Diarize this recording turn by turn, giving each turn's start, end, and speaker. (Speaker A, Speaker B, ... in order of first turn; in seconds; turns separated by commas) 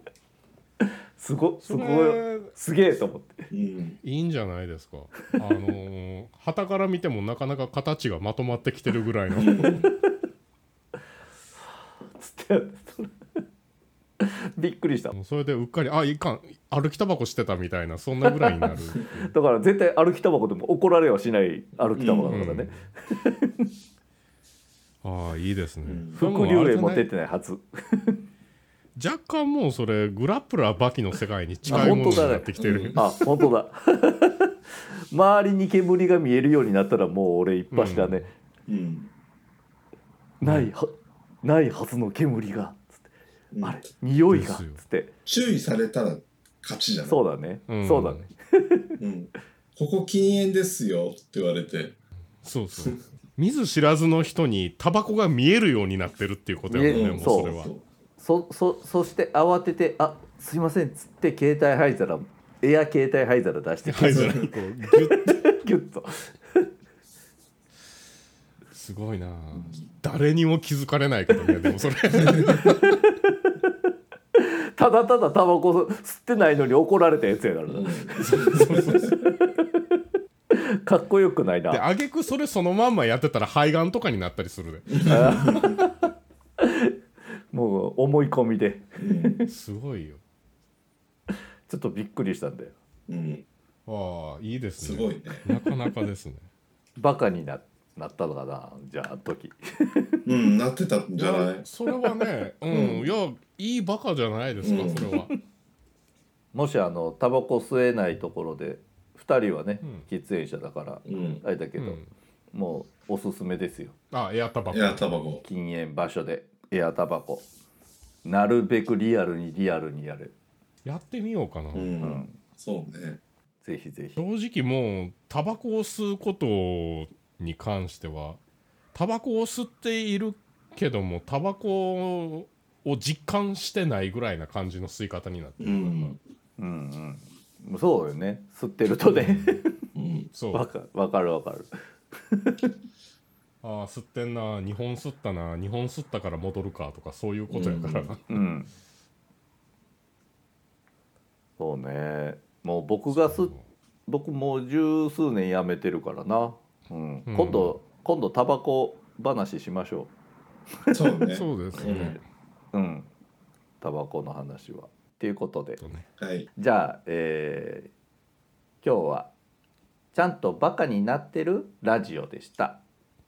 Speaker A: 0.8-3.5, Speaker B: 1.6-2.5, Speaker C: 3.5-4.0, Speaker B: 4.0-9.9, Speaker C: 9.3-9.9, Speaker A: 9.4-9.9, Speaker A: 12.2-13.2, Speaker A: 14.2-15.1, Speaker B: 15.1-19.3, Speaker A: 18.2-23.7, Speaker C: 21.9-22.4, Speaker B: 22.3-22.8, Speaker B: 25.0-27.1, Speaker C: 25.8-26.2, Speaker A: 26.1-28.2, Speaker B: 28.9-33.1, Speaker C: 31.7-33.0, Speaker A: 31.7-34.5, Speaker A: 35.1-38.3, Speaker B: 37.7-38.2, Speaker C: 38.7-39.1, Speaker A: 40.4-43.0, Speaker B: 40.4-40.7, Speaker C: 43.5-43.8, Speaker A: 43.6-45.1, Speaker B: 44.3-44.8, Speaker C: 45.2-47.2, Speaker A: 47.0-49.0, Speaker B: 47.7-48.3, Speaker C: 49.0-52.0, Speaker B: 52.4-57.7, Speaker A: 56.7-57.5, Speaker C: 56.8-57.8, Speaker A: 58.2-66.7, Speaker B: 63.8-65.4, Speaker B: 68.7-73.0, Speaker A: 74.3-79.8, Speaker C: 77.7-78.9, Speaker B: 78.2-79.2, Speaker A: 80.5-81.8, Speaker B: 81.7-85.0, Speaker C: 84.9-85.8, Speaker A: 85.0-86.0, Speaker A: 86.6-86.9, Speaker A: 87.5-89.5, Speaker C: 89.0-89.4, Speaker B: 89.5-90.2, Speaker A: 91.7-92.8, Speaker C: 93.1-93.4, Speaker B: 93.8-96.4, Speaker C: 94.8-95.4, Speaker A: 95.4-96.0, Speaker A: 97.0-100.2, Speaker C: 100.2-101.6, Speaker B: 101.2-105.3, Speaker C: 102.7-103.0, Speaker C: 104.6-105.1, Speaker A: 106.5-112.0, Speaker C: 111.0-111.4, Speaker B: 111.8-112.1, Speaker A: 112.5-114.0, Speaker B: 114.1-115.0, Speaker C: 114.7-115.4, Speaker A: 115.4-117.5, Speaker A: 118.2-120.3, Speaker B: 120.8-121.9, Speaker C: 121.7-123.2, Speaker A: 122.0-122.4, Speaker A: 123.6-124.2, Speaker B: 124.2-128.4, Speaker B: 128.9-136.2, Speaker C: 135.6-136.2, Speaker A: 136.6-139.7, Speaker B: 139.1-139.6, Speaker C: 139.9-140.3, Speaker B: 140.3-140.7, Speaker A: 140.5-142.7, Speaker B: 143.6-148.4, Speaker C: 147.5-148.1, Speaker A: 148.3-148.7, Speaker A: 151.6-153.5, Speaker B: 153.1-153.6, Speaker A: 154.1-160.1, Speaker B: 157.3-157.7, Speaker C: 160.9-162.2, Speaker B: 161.3-162.2, Speaker A: 162.7-163.1, Speaker A: 163.8-165.8, Speaker B: 165.8-166.1, Speaker C: 166.2-166.5, Speaker A: 166.6-167.9, Speaker A: 168.8-169.3, Speaker A: 170.1-172.8